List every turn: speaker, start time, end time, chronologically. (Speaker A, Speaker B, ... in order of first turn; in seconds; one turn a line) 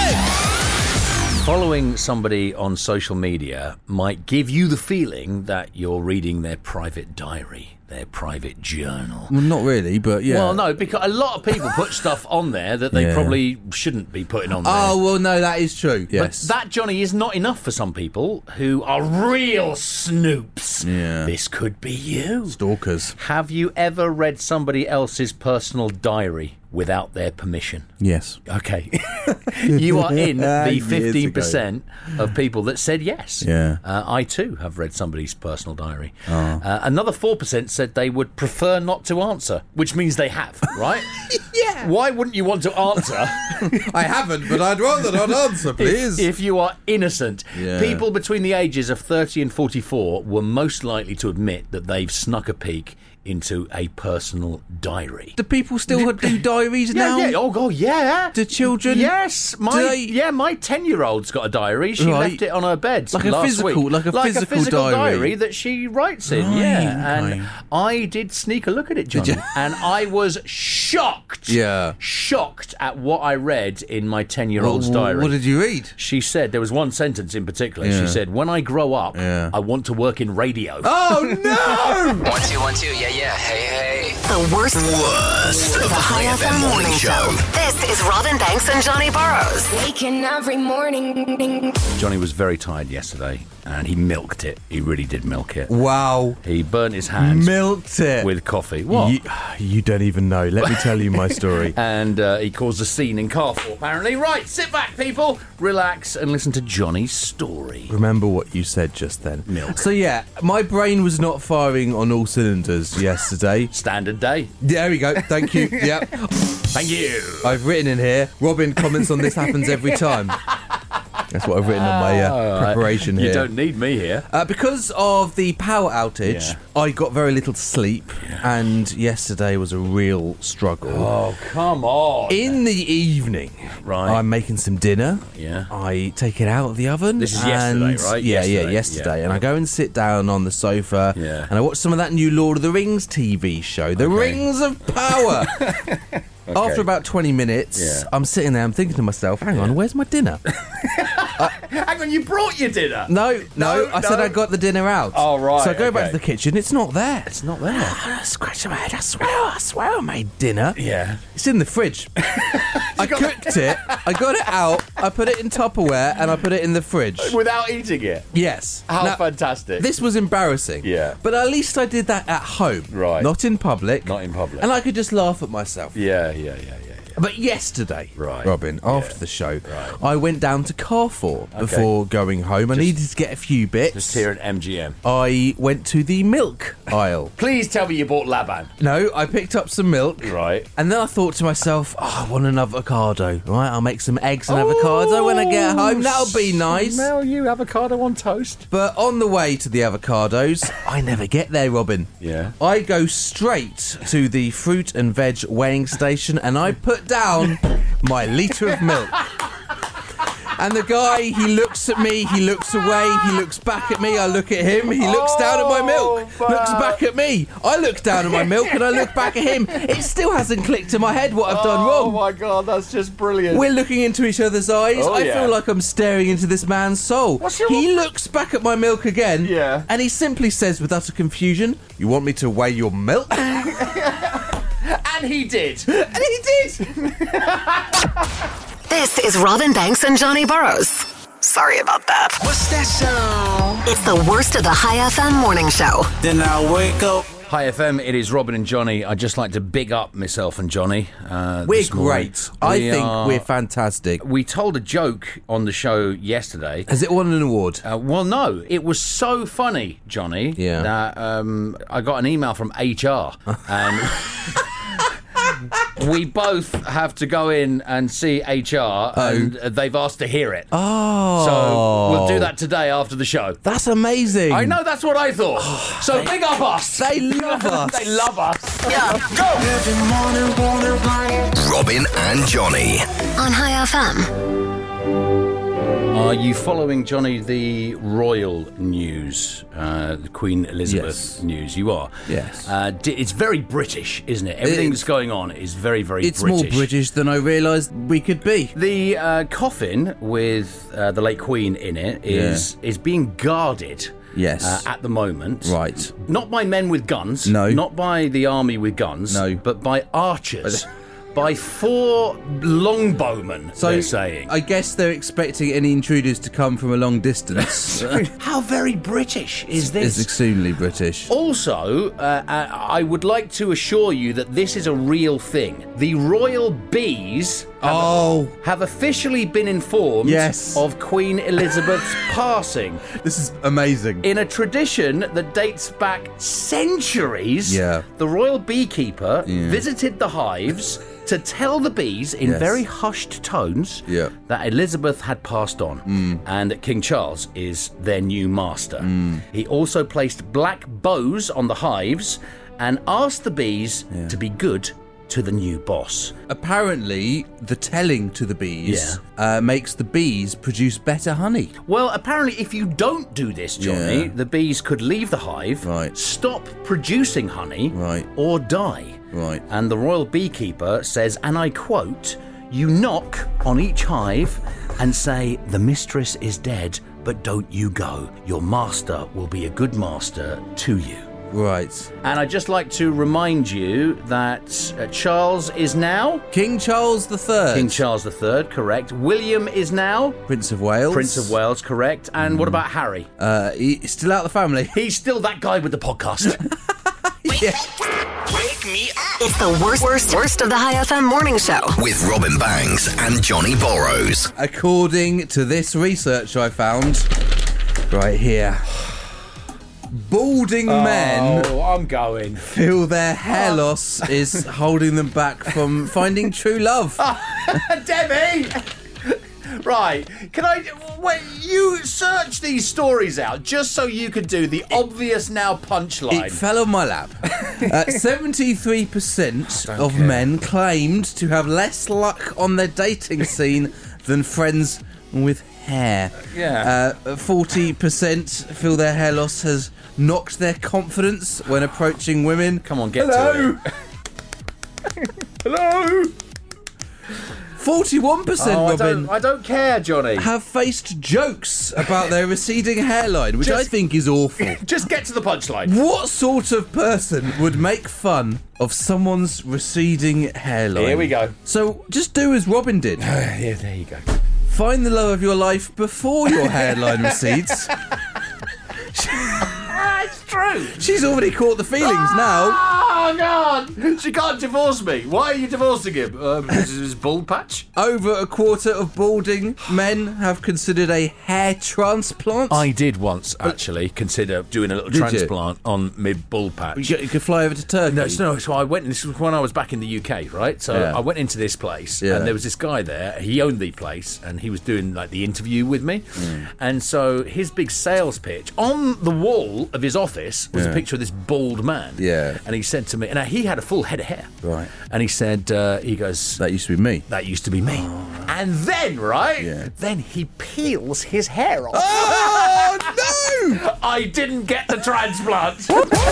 Speaker A: 1.4-9.4
Speaker B: 9.3-10.7
Speaker A: 10.3-15.0
Speaker B: 12.9-13.4
Speaker B: 14.6-16.5
Speaker A: 16.1-22.6
Speaker B: 20.8-21.3
Speaker B: 22.5-23.2
Speaker A: 23.1-27.9
Speaker B: 28.0-28.4
Speaker A: 28.4-41.2
Speaker B: 29.3-31.6
Speaker B: 33.4-33.8
Speaker B: 36.3-36.6
Speaker B: 41.3-41.9
Speaker A: 41.8-43.8
Speaker B: 43.5-46.3
Speaker A: 45.8-55.4
Speaker B: 47.5-48.1
Speaker B: 55.4-57.4
Speaker A: 55.9-75.4
Speaker B: 58.3-59.1
Speaker B: 59.7-60.1
Speaker B: 62.0-62.4
Speaker B: 63.1-65.3
Speaker B: 66.3-67.5
Speaker B: 69.1-69.5
Speaker B: 71.5-72.0
Speaker B: 74.6-76.0
Speaker A: 76.0-82.1
Speaker B: 77.8-78.2
Speaker B: 79.1-79.5
Speaker B: 80.8-82.3
Speaker C: 82.2-84.2
Speaker D: 84.3-85.0
Speaker E: 84.7-87.4
Speaker D: 85.6-89.7
Speaker F: 89.7-91.8
Speaker A: 92.0-95.7
Speaker B: 95.7-96.4
Speaker A: 96.4-97.6
Speaker B: 97.2-98.3
Speaker A: 98.2-99.2
Speaker B: 98.9-101.8
Speaker A: 100.7-107.9
Speaker B: 107.9-113.7
Speaker A: 109.5-109.8
Speaker A: 113.7-114.5
Speaker B: 114.6-116.6
Speaker A: 115.1-117.6
Speaker B: 117.4-120.4
Speaker A: 118.9-120.2
Speaker B: 121.3-123.6
Speaker A: 121.7-124.3
Speaker B: 124.2-131.1
Speaker A: 126.2-126.6
Speaker A: 128.2-128.5
Speaker A: 130.9-132.6
Speaker B: 132.3-145.8
Speaker A: 133.8-134.2
Speaker A: 135.3-135.7
Speaker A: 137.2-139.4
Speaker A: 141.1-141.5
Speaker A: 143.9-144.4
Speaker A: 145.1-146.9
Speaker B: 146.5-150.4
Speaker A: 147.8-148.1
Speaker A: 150.5-154.4
Speaker B: 153.1-167.4
Speaker A: 155.1-156.2
Speaker A: 157.3-158.0
Speaker A: 160.8-161.2
Speaker A: 162.3-164.1
Speaker A: 167.2-168.3
Speaker B: 168.3-169.2
Speaker A: 168.9-169.9
Speaker B: 169.8-175.9
Speaker A: 170.8-171.2
Speaker A: 172.9-173.3
Speaker A: 174.0-174.7
Speaker A: 175.9-177.2
Speaker B: 177.2-184.3
Speaker A: 178.2-180.0
Speaker A: 181.5-181.9
Speaker A: 183.9-185.0
Speaker B: 185.0-187.3
Speaker A: 187.3-188.7
Speaker B: 188.8-197.1
Speaker A: 190.2-190.7
Speaker A: 194.5-198.7
Speaker B: 198.7-209.3
Speaker A: 202.2-202.6
Speaker B: 210.6-222.2
Speaker A: 215.0-217.0
Speaker A: 218.2-219.5
Speaker A: 221.5-223.7
Speaker B: 223.5-233.8
Speaker A: 224.9-225.6
Speaker A: 227.4-227.9
Speaker A: 229.4-229.9
Speaker A: 233.5-238.1
Speaker B: 236.0-236.8
Speaker D: 238.9-242.4
Speaker G: 242.4-243.8
Speaker D: 243.9-246.1
Speaker G: 246.2-247.3
Speaker A: 247.5-253.4
Speaker B: 251.6-254.2
Speaker A: 254.2-256.9
Speaker B: 256.9-257.8
Speaker A: 257.8-264.6
Speaker B: 260.6-260.9
Speaker A: 265.8-270.7
Speaker B: 269.1-269.5
Speaker B: 270.7-272.5
Speaker A: 271.4-273.6
Speaker B: 273.6-274.8
Speaker A: 274.5-279.6
Speaker B: 275.6-276.4
Speaker B: 276.9-278.2
Speaker D: 278.9-279.2
Speaker G: 279.5-281.5
Speaker E: 281.5-283.1
Speaker D: 283.4-284.3
Speaker A: 286.1-296.9
Speaker B: 290.9-291.4
Speaker B: 292.3-292.7
Speaker B: 294.6-295.1
Speaker B: 296.2-298.8
Speaker A: 298.7-314.5
Speaker B: 302.2-302.7
Speaker B: 304.3-304.9
Speaker B: 305.6-306.1
Speaker B: 307.4-307.9
Speaker B: 309.3-309.6
Speaker B: 313.8-318.2
Speaker A: 317.9-320.3
Speaker B: 319.8-321.3
Speaker A: 321.3-333.1
Speaker B: 327.8-328.5
Speaker B: 330.2-330.8
Speaker B: 333.1-334.3
Speaker A: 334.2-356.4
Speaker B: 337.6-338.1
Speaker B: 339.4-339.8
Speaker B: 342.4-342.8
Speaker B: 344.1-344.3
Speaker B: 346.1-346.4
Speaker B: 349.0-349.4
Speaker B: 354.1-354.4
Speaker B: 356.5-361.7
Speaker A: 358.8-359.2
Speaker A: 361.8-381.3
Speaker B: 363.8-364.3
Speaker B: 365.8-366.1
Speaker B: 367.9-368.3
Speaker B: 369.3-369.6
Speaker B: 381.5-382.1
Speaker A: 382.2-386.4
Speaker B: 386.5-388.0
Speaker A: 387.7-390.4
Speaker B: 390.5-391.6
Speaker A: 391.1-393.3
Speaker B: 392.5-392.8
Speaker B: 393.4-395.0
Speaker A: 394.9-396.6
Speaker B: 397.4-397.9
Speaker G: 398.6-399.2
Speaker D: 399.3-402.0
Speaker E: 402.0-404.5
Speaker B: 404.6-407.3
Speaker B: 408.1-409.2
Speaker B: 410.1-411.7
Speaker A: 410.9-412.7
Speaker B: 412.6-417.8
Speaker A: 413.5-414.6
Speaker A: 417.2-426.6
Speaker B: 426.3-443.8
Speaker A: 427.6-427.9
Speaker A: 429.8-430.5
Speaker A: 436.4-436.9
Speaker A: 442.8-443.8
Speaker A: 445.6-446.3
Speaker B: 447.7-449.3
Speaker A: 448.6-450.5
Speaker B: 450.4-454.8
Speaker A: 453.6-453.9
Speaker A: 454.6-455.9
Speaker B: 455.8-463.2
Speaker A: 460.9-461.6
Speaker A: 463.2-464.3
Speaker B: 464.7-467.9
Speaker A: 466.7-467.9
Speaker B: 469.1-469.9
Speaker A: 469.6-471.0
Speaker B: 470.9-472.8
Speaker A: 472.0-477.9
Speaker B: 477.9-482.9
Speaker A: 482.7-487.2
Speaker B: 485.1-485.5
Speaker B: 486.9-488.4
Speaker A: 488.1-506.6
Speaker B: 490.9-491.2
Speaker B: 492.2-492.5
Speaker B: 496.4-496.7
Speaker B: 500.7-501.0
Speaker B: 502.2-502.6
Speaker B: 504.6-504.9
Speaker B: 506.6-507.2
Speaker A: 507.3-516.1
Speaker B: 507.8-508.6
Speaker B: 509.6-509.9
Speaker B: 511.9-513.8